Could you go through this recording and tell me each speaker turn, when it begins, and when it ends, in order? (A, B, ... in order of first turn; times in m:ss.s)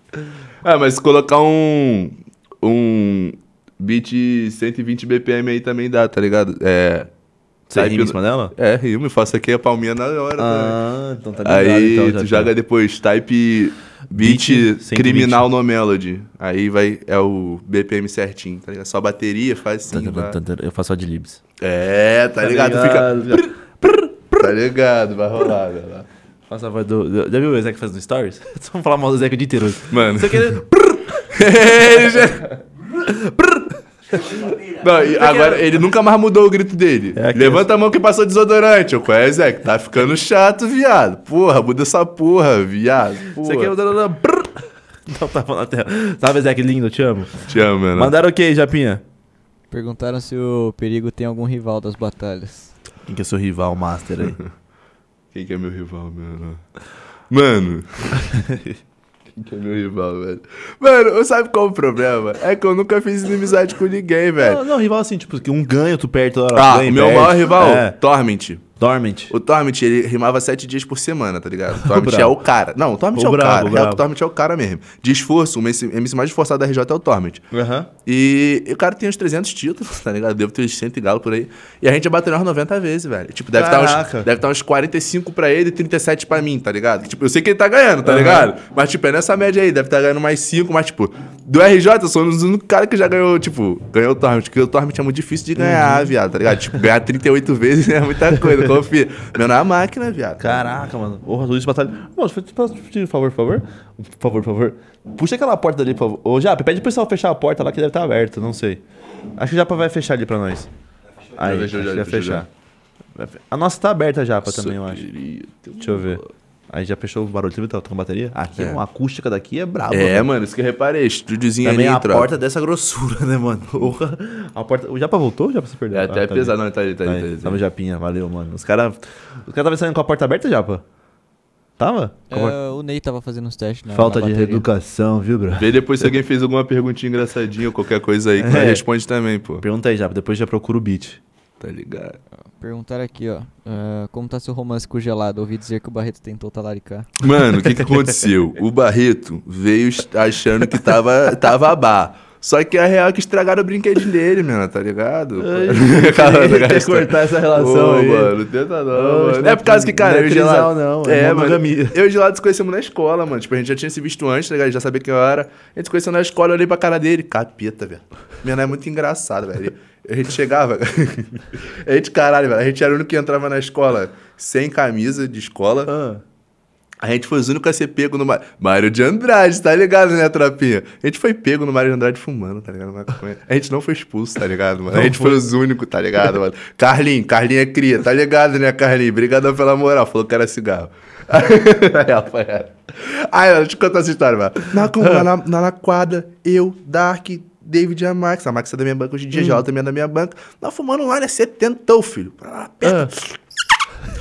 0:00.6-0:07.1 A
0:07.7-0:08.5 B
0:07.7-0:10.8 A
0:10.4-0:12.5 B
0:11.4-0:20.4 A
0:14.1-0:15.4 B
0:19.9-0:21.4 B
0:21.6-0:23.5 A
0:22.4-0:24.5 B
0:24.3-0:26.1 A
0:26.5-0:31.3 B
0:29.9-0:32.5 A
0:33.0-0:35.7 B
0:34.7-0:43.7 A
0:37.1-0:37.7 B
0:43.4-0:49.0 B
0:47.5-0:48.1 A
0:49.7-0:52.7 C
0:53.0-0:54.4 B
0:55.3-0:56.6 A
0:57.3-0:58.2 A
0:58.3-0:58.8 B
0:59.3-1:04.6 A
1:04.4-1:08.0 B
1:06.5-1:08.6 A
1:08.8-1:09.3 B
1:09.3-1:17.4 A
1:11.8-1:12.4 B
1:13.1-1:14.0 B
1:17.5-1:17.9 B
1:18.0-1:40.7 A
1:23.5-1:24.3 B
1:28.0-1:28.5 B
1:35.6-1:36.1 B
1:40.4-1:48.8 B
1:49.4-1:50.7 B
1:51.4-1:52.4 A
1:51.4-1:52.5 B
1:53.1-1:55.0 B
1:54.4-1:56.3 A
1:55.8-2:00.3 B
1:58.6-1:58.8 A
1:59.9-2:02.3 A
2:01.6-2:10.8 B
2:05.9-2:07.6 A
2:11.8-2:12.6 B
2:12.3-2:14.7 C
2:13.9-2:15.8 B
2:15.5-2:19.6 A
2:18.4-2:18.8 B
2:19.6-2:21.2 B
2:21.6-2:22.2 A
2:22.6-2:27.1 C
2:27.2-2:55.9 A
2:35.4-2:38.4 B
2:38.9-2:42.0 B
2:55.9-2:56.2 B
2:57.0-3:23.2 A
3:04.9-3:05.4 B
3:19.3-3:19.6 B
3:22.8-3:23.1 B